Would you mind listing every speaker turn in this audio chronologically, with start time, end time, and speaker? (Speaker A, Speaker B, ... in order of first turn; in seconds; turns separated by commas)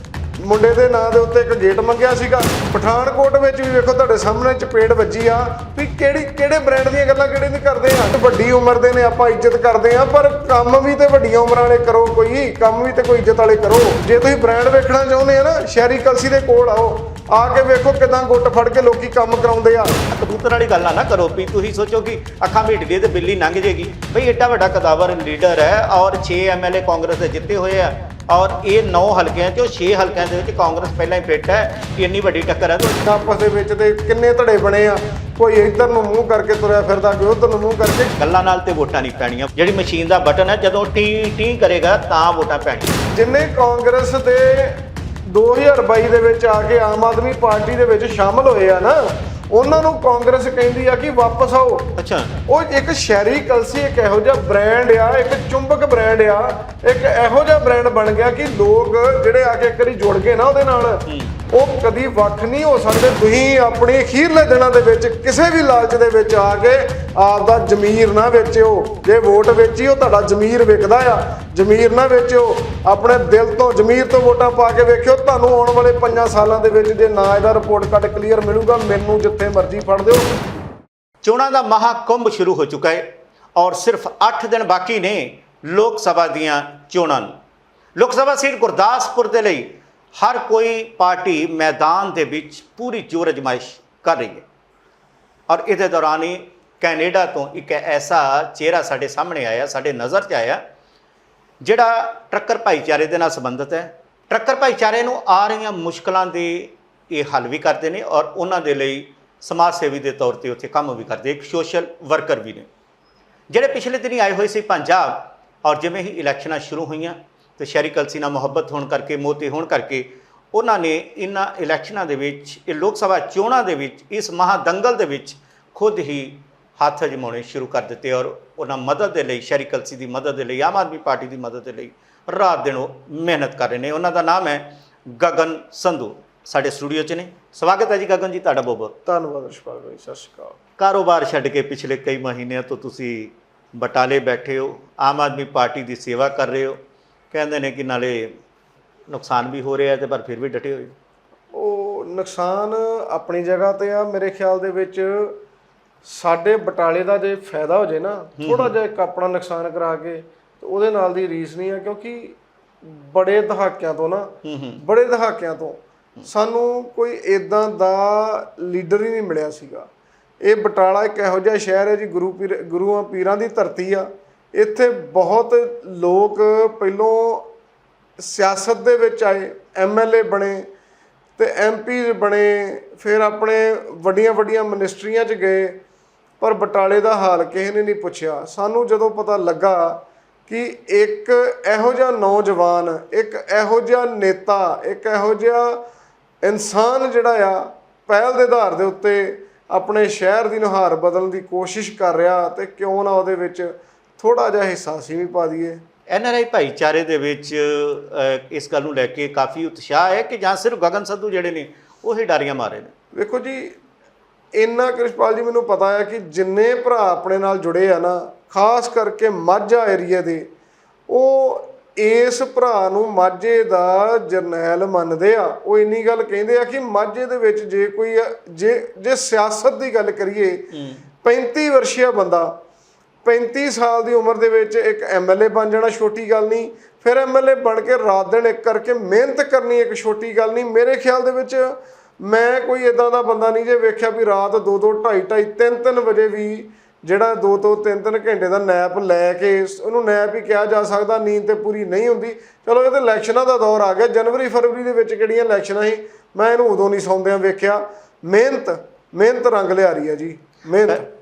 Speaker A: 0.4-20.0, Speaker B: 20.1-33.0, Speaker A: 33.0-38.1, Speaker B: 38.2-43.0, Speaker A: 43.1-52.0, Speaker B: 52.0-52.3, Speaker A: 52.5-80.3, Speaker B: 61.1-61.3, Speaker B: 81.2-87.3, Speaker B: 88.0-94.5, Speaker B: 95.5-100.6, Speaker B: 101.6-112.7, Speaker B: 113.5-138.9, Speaker A: 139.1-140.6, Speaker B: 140.8-146.8, Speaker B: 147.3-148.3, Speaker B: 149.1-150.9, Speaker A: 151.5-155.4, Speaker A: 156.0-169.9, Speaker B: 158.4-158.7, Speaker B: 164.4-164.8, Speaker A: 170.4-177.4, Speaker A: 178.2-180.7, Speaker A: 181.4-185.8, Speaker A: 186.4-195.8, Speaker A: 196.4-205.8, Speaker B: 206.1-212.9, Speaker A: 213.2-213.8, Speaker A: 214.6-220.5, Speaker A: 221.1-230.6, Speaker B: 230.7-231.0, Speaker A: 231.2-232.5, Speaker A: 233.2-261.1